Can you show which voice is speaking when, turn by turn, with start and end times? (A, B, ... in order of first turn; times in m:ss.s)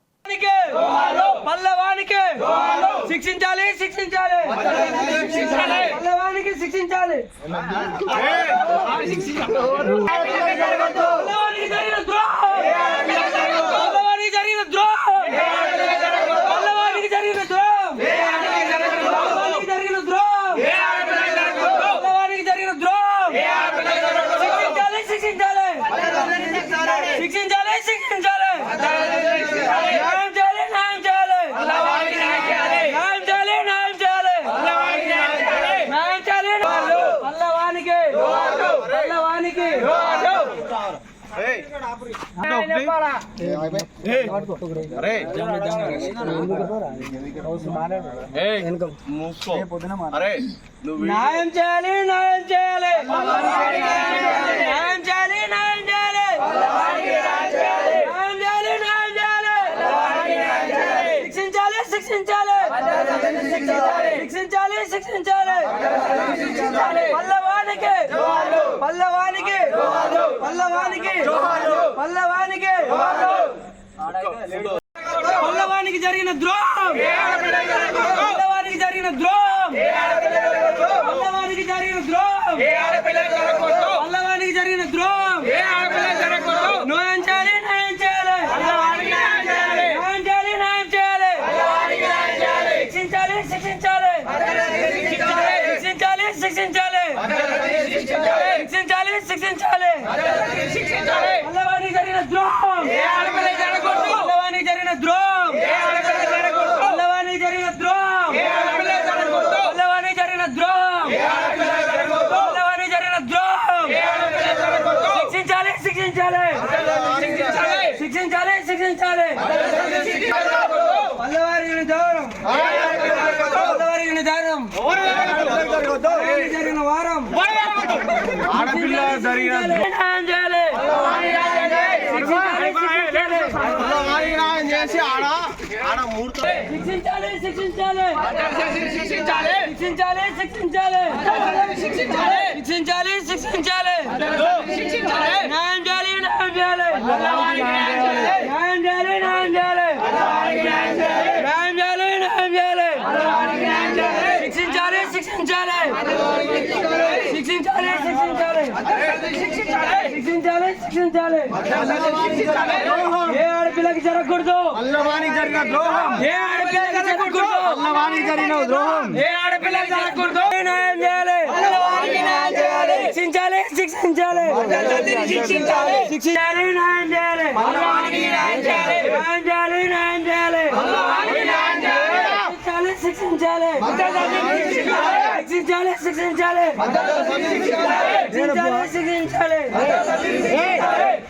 0:00.3-0:07.3 A
0:08.0-0:40.6 A
0:42.4-0:42.9 B
0:42.5-0:42.9 A
0:44.0-0:49.0 A
0:45.0-0:45.3 B
0:49.1-0:50.4 B
0:50.9-1:13.6 A
1:15.1-2:14.3 A
2:14.1-2:15.5 B
2:16.0-2:16.3 B
2:16.3-2:45.2 A
2:45.1-2:46.0 B
2:45.8-3:11.0 A
2:48.0-2:49.0 B